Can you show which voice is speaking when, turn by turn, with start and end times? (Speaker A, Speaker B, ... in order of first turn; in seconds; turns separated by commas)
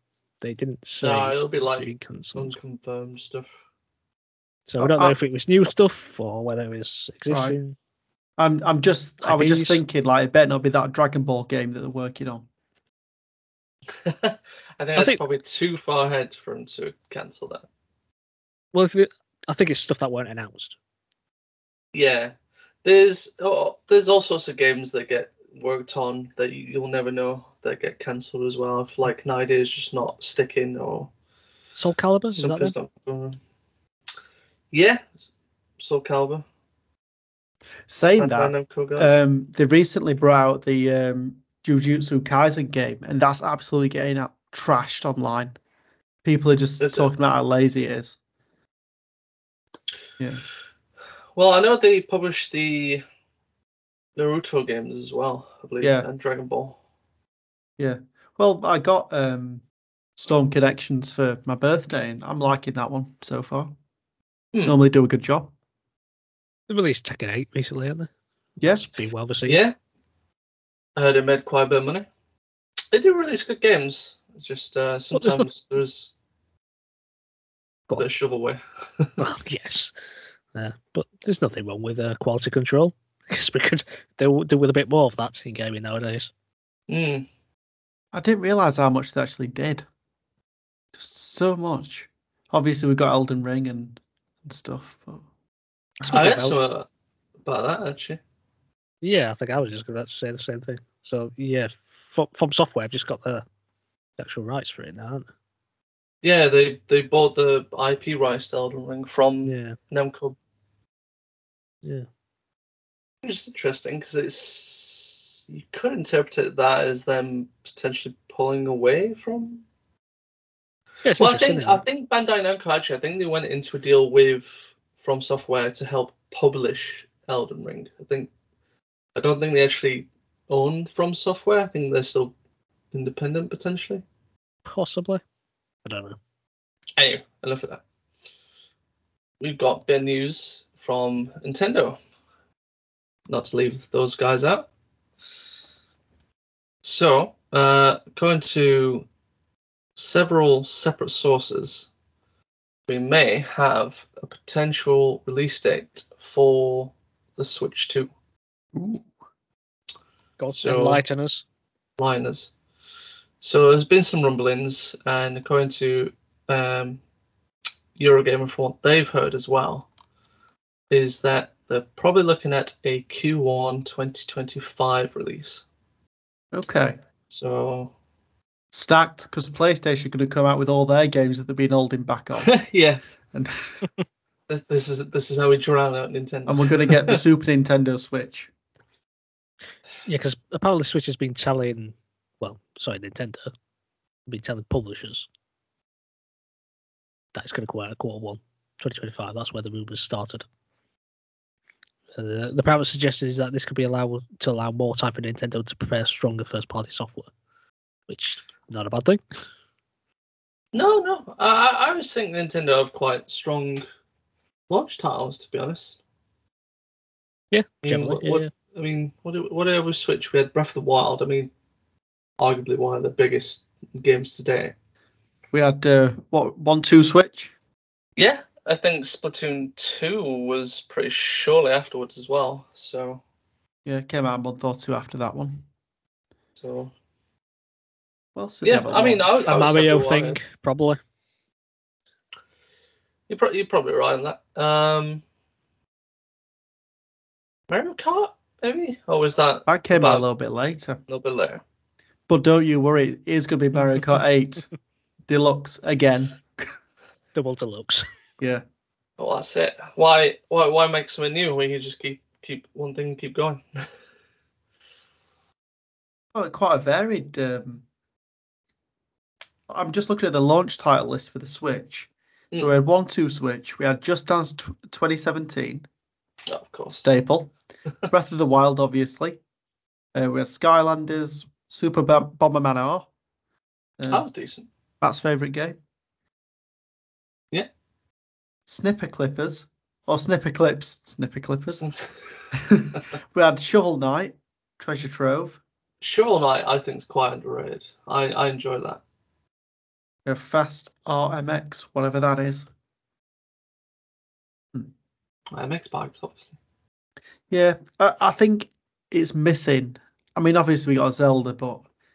Speaker A: 0.4-2.5, Speaker B: 1.0-3.5, Speaker A: 4.7-7.8, Speaker C: 4.8-5.2, Speaker C: 7.3-7.6, Speaker C: 8.4-12.4, Speaker A: 9.2-9.8, Speaker B: 14.0-17.7, Speaker A: 14.9-15.2, Speaker A: 18.7-20.8, Speaker B: 21.9-31.1, Speaker A: 31.8-32.7, Speaker B: 32.3-33.4, Speaker B: 34.7-36.4, Speaker C: 37.9-45.5, Speaker B: 38.2-39.2, Speaker C: 46.2-48.2, Speaker B: 46.8-47.1, Speaker B: 51.3-53.0, Speaker B: 54.1-56.8, Speaker C: 55.8-56.1, Speaker C: 57.8-59.6, Speaker C: 60.2-63.7, Speaker C: 64.6-65.5, Speaker A: 66.7-68.1, Speaker C: 68.6-68.9, Speaker A: 68.7-69.6, Speaker B: 69.5-69.7, Speaker B: 71.0-72.1, Speaker B: 72.9-76.1, Speaker A: 75.1-75.5, Speaker B: 78.0-79.1, Speaker A: 79.2-79.9, Speaker A: 80.5-86.3, Speaker B: 86.9-87.2, Speaker C: 88.1-89.8, Speaker C: 90.9-95.2, Speaker A: 96.0-96.6, Speaker B: 96.1-96.9, Speaker B: 97.4-98.2, Speaker A: 99.0-103.4, Speaker A: 104.2-105.3, Speaker B: 106.2-110.3, Speaker A: 109.4-109.8, Speaker B: 113.2-119.6, Speaker A: 121.0-121.8, Speaker B: 121.2-128.3, Speaker B: 129.1-132.3, Speaker B: 132.9-134.0, Speaker A: 134.7-135.2, Speaker A: 135.8-136.2, Speaker B: 137.0-137.8, Speaker B: 139.4-142.0, Speaker B: 143.3-144.7, Speaker B: 146.8-149.1, Speaker B: 149.9-151.9, Speaker B: 152.9-158.1, Speaker C: 158.7-159.1, Speaker A: 160.4-161.4, Speaker B: 160.5-161.0, Speaker B: 162.0-162.5, Speaker B: 163.4-167.0, Speaker B: 168.0-169.9, Speaker B: 170.9-175.6, Speaker C: 176.5-177.0, Speaker B: 177.3-177.9, Speaker C: 178.7-182.6, Speaker B: 182.4-183.0, Speaker C: 183.3-183.8, Speaker B: 184.5-187.2, Speaker C: 186.5-188.5, Speaker A: 190.1-193.5, Speaker A: 194.3-195.3, Speaker A: 197.3-200.4, Speaker A: 202.2-207.3, Speaker A: 208.1-209.2, Speaker B: 210.7-213.8, Speaker B: 214.7-216.0, Speaker A: 217.5-218.5, Speaker B: 217.8-221.5, Speaker B: 222.4-224.7, Speaker C: 225.5-227.5, Speaker B: 228.2-233.2, Speaker C: 233.8-235.6, Speaker B: 236.6-236.9, Speaker C: 238.3-239.2, Speaker B: 238.6-240.4, Speaker A: 239.4-241.0, Speaker B: 243.3-245.2, Speaker B: 247.7-250.2, Speaker C: 249.7-251.0, Speaker B: 251.1-251.6, Speaker C: 252.3-254.7, Speaker C: 255.3-256.7, Speaker A: 257.3-258.0, Speaker B: 259.2-263.9, Speaker C: 266.3-267.8, Speaker C: 269.7-275.9, Speaker B: 276.5-277.0, Speaker C: 276.9-277.5, Speaker C: 278.1-279.4, Speaker C: 280.1-283.1, Speaker C: 284.0-284.2, Speaker B: 284.1-284.7, Speaker C: 285.0-285.8, Speaker C: 288.7-291.8, Speaker B: 291.7-292.1, Speaker C: 292.5-295.6, Speaker B: 296.0-299.0, Speaker C: 300.2-302.7, Speaker B: 305.5-306.6, Speaker C: 307.5-311.9